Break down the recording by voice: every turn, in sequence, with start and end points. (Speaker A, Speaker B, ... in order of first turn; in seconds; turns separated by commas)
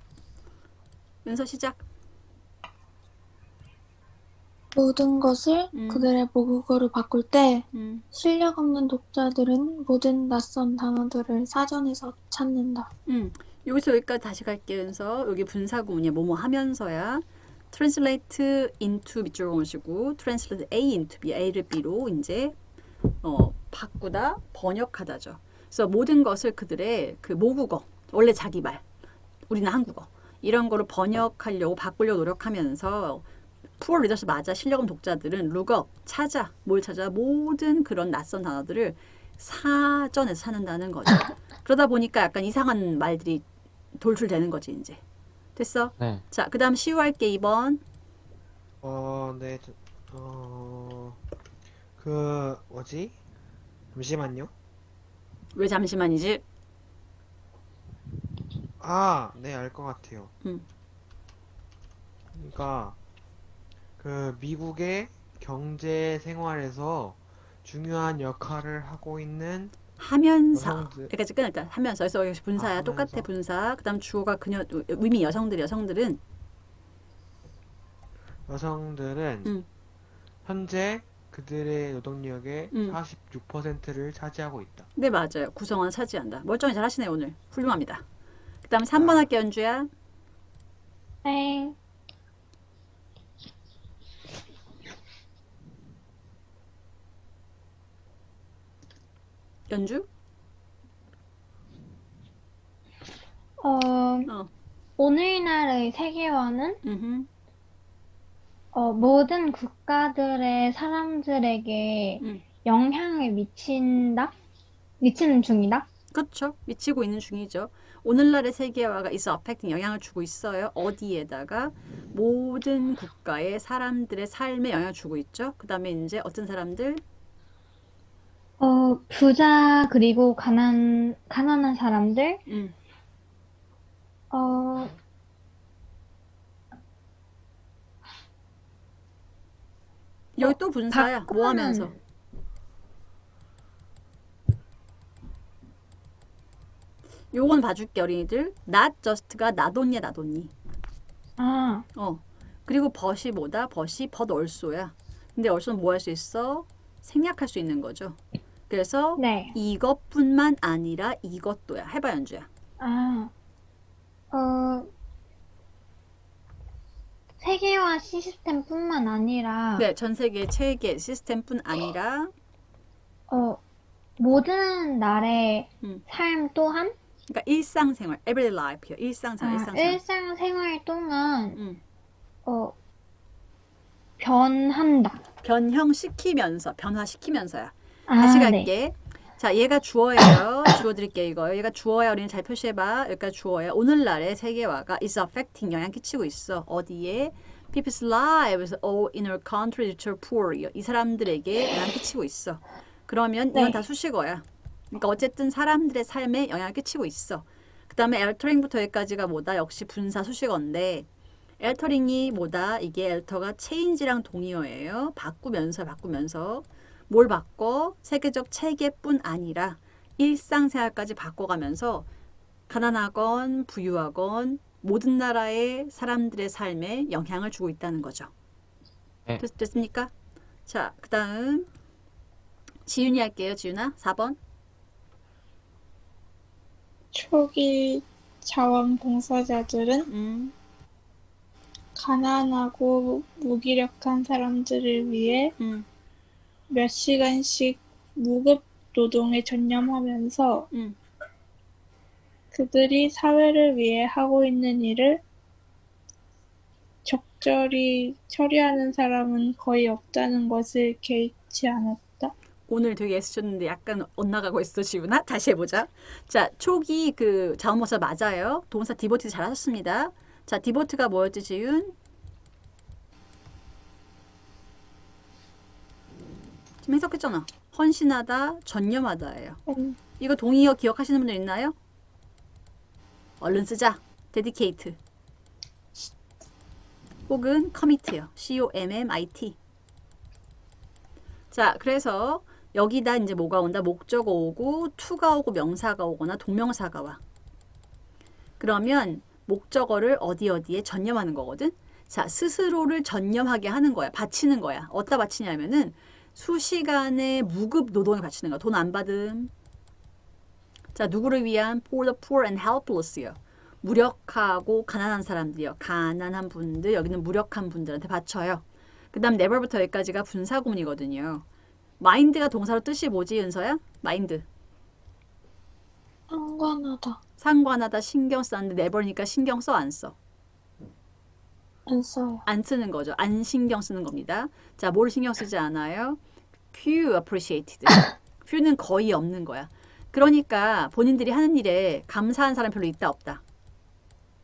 Speaker A: 1.2-1.8, Speaker B: 4.7-12.9, Speaker A: 5.7-6.1, Speaker A: 7.7-8.0, Speaker A: 13.1-22.6, Speaker A: 23.2-28.8, Speaker A: 29.5-33.2, Speaker A: 33.8-43.4, Speaker A: 44.0-45.0, Speaker A: 45.5-47.8, Speaker C: 48.8-51.2, Speaker C: 52.0-53.1, Speaker C: 53.9-54.5, Speaker A: 55.5-56.4, Speaker C: 58.8-60.3, Speaker C: 62.3-63.0, Speaker C: 64.0-69.8, Speaker A: 70.0-76.2, Speaker C: 70.5-71.1, Speaker C: 72.5-73.3, Speaker C: 78.5-79.5, Speaker C: 80.4-84.9, Speaker A: 82.7-83.0, Speaker A: 85.0-88.0, Speaker A: 88.6-89.9, Speaker C: 88.9-89.3, Speaker D: 91.2-91.8, Speaker A: 99.7-100.0, Speaker D: 103.6-104.3, Speaker D: 105.0-106.8, Speaker A: 106.8-107.3, Speaker D: 108.7-114.3, Speaker D: 115.0-115.9, Speaker A: 116.1-127.0, Speaker D: 128.6-132.4, Speaker A: 132.5-132.7, Speaker D: 134.3-135.0, Speaker A: 140.3-141.9, Speaker D: 140.4-141.9, Speaker A: 147.3-150.5, Speaker D: 151.4-151.9, Speaker A: 151.9-162.4, Speaker D: 159.2-159.6, Speaker D: 162.8-163.3, Speaker D: 164.3-164.9, Speaker D: 167.4-169.9, Speaker A: 169.8-172.3, Speaker D: 173.3-173.6, Speaker D: 174.2-176.9, Speaker A: 177.3-180.0, Speaker D: 179.4-181.6, Speaker D: 182.4-182.7, Speaker D: 184.2-185.2, Speaker A: 185.4-211.1, Speaker D: 188.1-188.7, Speaker A: 211.6-222.1, Speaker A: 222.7-228.3, Speaker A: 229.4-230.1, Speaker A: 230.7-231.7, Speaker A: 232.8-234.4, Speaker E: 237.1-240.1, Speaker A: 240.1-240.5, Speaker E: 241.9-245.5, Speaker A: 245.6-245.8, Speaker E: 246.7-250.7, Speaker A: 250.7-251.0, Speaker E: 252.5-255.2, Speaker E: 257.0-262.3, Speaker A: 262.7-271.9, Speaker A: 276.8-279.6, Speaker A: 280.2-281.7, Speaker A: 283.4-284.9, Speaker A: 287.3-289.6, Speaker A: 291.5-297.2, Speaker A: 298.6-309.5, Speaker A: 310.9-321.4, Speaker A: 322.0-324.4, Speaker B: 326.3-327.2, Speaker A: 327.4-330.1, Speaker B: 331.9-332.4, Speaker A: 332.5-336.2, Speaker A: 336.7-343.4